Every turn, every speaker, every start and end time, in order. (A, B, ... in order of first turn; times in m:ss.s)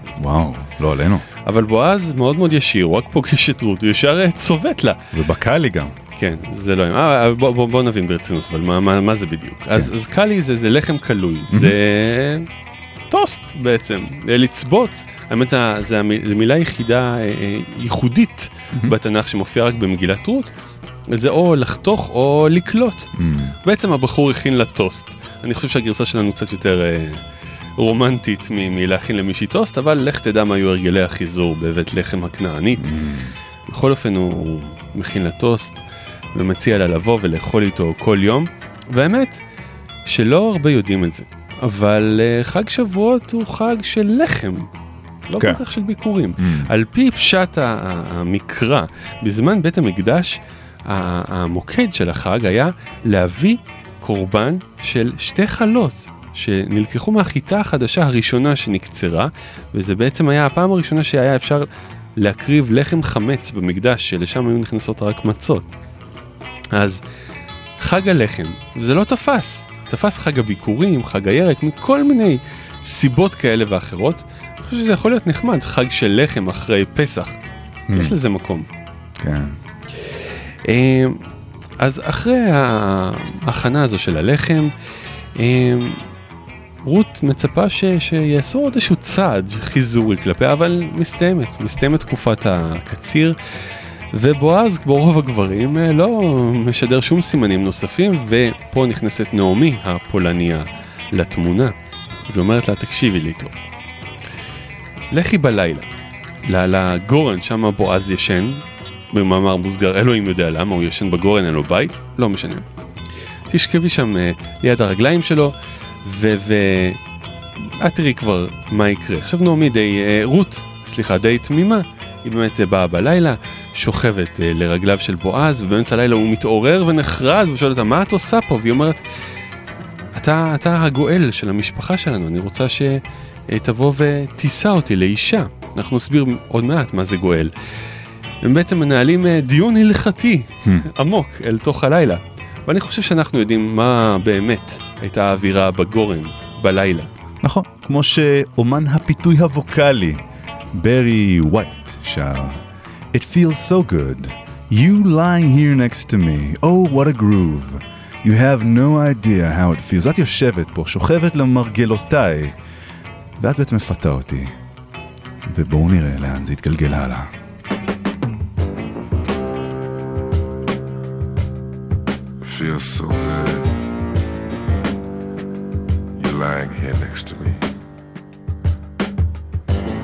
0:00.2-0:01.2 A
0:01.4-0:05.0 B
0:05.1-0:06.0 A
0:06.2-0:12.5 B
0:11.5-0:11.8 A
0:13.1-0:20.5 B
0:21.1-0:23.1 B
0:23.2-0:23.5 A
0:23.6-0:27.2 B
0:27.8-0:32.9 B
0:32.8-0:33.3 A
0:33.7-0:35.8 B
0:36.3-0:39.4 B
0:40.0-0:44.7 B
0:45.3-1:01.6 B
0:45.4-0:45.6 A
0:46.4-0:46.7 A
1:02.2-1:05.6 B
1:06.7-1:07.0 B
1:07.8-1:17.4 B
1:17.9-1:18.2 A
1:17.9-1:18.6 B
1:19.2-1:19.6 A
1:20.7-1:21.2 B
1:21.8-1:24.7 B
1:25.4-1:26.0 B
1:26.8-1:33.3 B
1:34.1-1:41.7 B
1:42.3-1:43.5 B
1:45.1-1:45.9 B
1:46.5-1:48.6 B
1:49.1-1:52.6 B
1:53.5-1:55.5 B
1:56.0-1:57.0 B
1:57.7-2:09.0 B
2:10.2-2:17.5 B
2:18.4-2:27.1 B
2:27.4-2:30.2 A
2:30.7-2:32.6 A
2:33.1-2:42.6 A
2:43.4-2:44.5 A
2:45.4-2:47.3 A
2:52.4-2:53.8 C
2:56.2-2:57.7 C